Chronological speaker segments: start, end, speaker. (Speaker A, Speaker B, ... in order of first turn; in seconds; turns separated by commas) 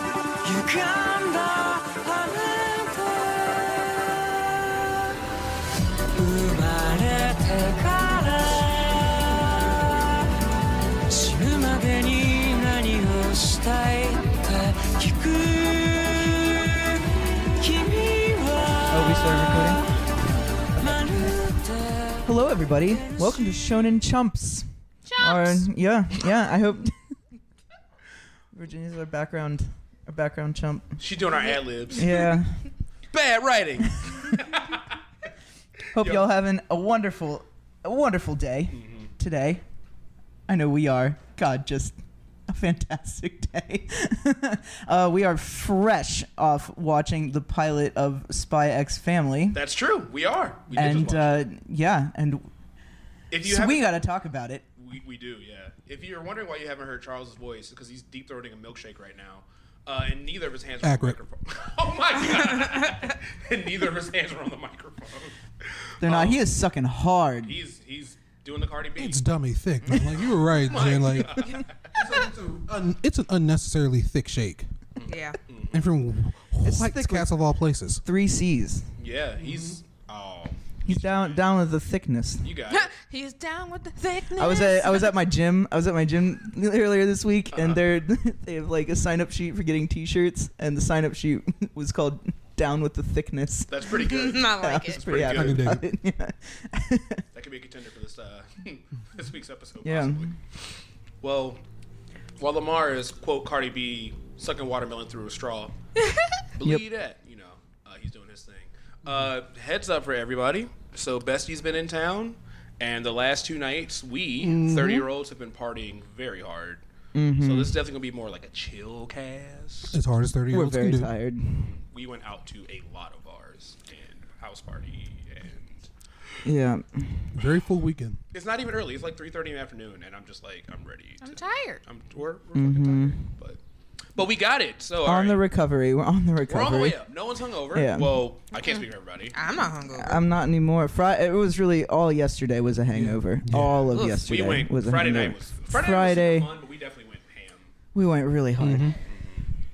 Speaker A: 0.4-5.0, Speaker A: 6.1-10.3, Speaker A: 11.1-17.0, Speaker A: 17.6-19.8, Speaker B: 18.9-19.9, Speaker A: 20.7-23.9, Speaker B: 20.8-21.4, Speaker B: 22.2-24.7, Speaker C: 25.1-25.6, Speaker B: 25.2-26.9, Speaker B: 28.5-31.0, Speaker D: 31.0-32.4, Speaker B: 31.9-32.6, Speaker D: 33.1-34.9, Speaker B: 35.9-39.6, Speaker D: 35.9-36.3, Speaker D: 38.7-39.1, Speaker B: 40.5-42.0, Speaker B: 42.5-49.6, Speaker D: 49.5-51.4, Speaker B: 50.7-52.5, Speaker D: 53.3-53.9, Speaker B: 53.4-54.6, Speaker D: 54.8-66.5, Speaker E: 60.8-61.2, Speaker B: 66.0-67.6, Speaker D: 67.5-69.2, Speaker E: 69.0-74.7, Speaker D: 69.9-70.1, Speaker D: 70.6-72.1, Speaker D: 75.0-75.8, Speaker C: 75.0-75.4, Speaker E: 75.7-78.0, Speaker B: 76.6-77.3, Speaker B: 78.0-78.9, Speaker D: 79.0-81.4, Speaker E: 79.4-79.8, Speaker B: 80.9-82.5, Speaker D: 82.4-82.9, Speaker C: 82.7-85.2, Speaker B: 84.4-97.2, Speaker D: 87.5-87.8, Speaker D: 93.7-95.8, Speaker C: 93.9-95.1, Speaker E: 95.3-95.8, Speaker D: 97.3-100.3, Speaker B: 99.8-100.3, Speaker D: 101.2-101.6, Speaker D: 102.4-105.7, Speaker C: 106.0-106.4, Speaker D: 106.5-116.8, Speaker E: 114.4-115.1, Speaker B: 117.1-117.7, Speaker D: 117.4-120.0, Speaker E: 119.9-121.1, Speaker B: 120.5-121.7, Speaker D: 121.6-125.9, Speaker B: 126.4-127.3, Speaker E: 127.3-128.2, Speaker D: 128.3-133.6, Speaker C: 131.2-131.8, Speaker B: 132.6-133.2, Speaker D: 134.2-135.4, Speaker B: 135.0-137.1, Speaker D: 136.5-139.4, Speaker B: 137.7-138.2, Speaker C: 139.3-140.2, Speaker B: 139.8-146.5, Speaker E: 142.9-144.0, Speaker D: 143.5-147.7, Speaker C: 143.9-144.3, Speaker B: 147.9-149.0, Speaker E: 148.6-149.0, Speaker D: 149.1-149.5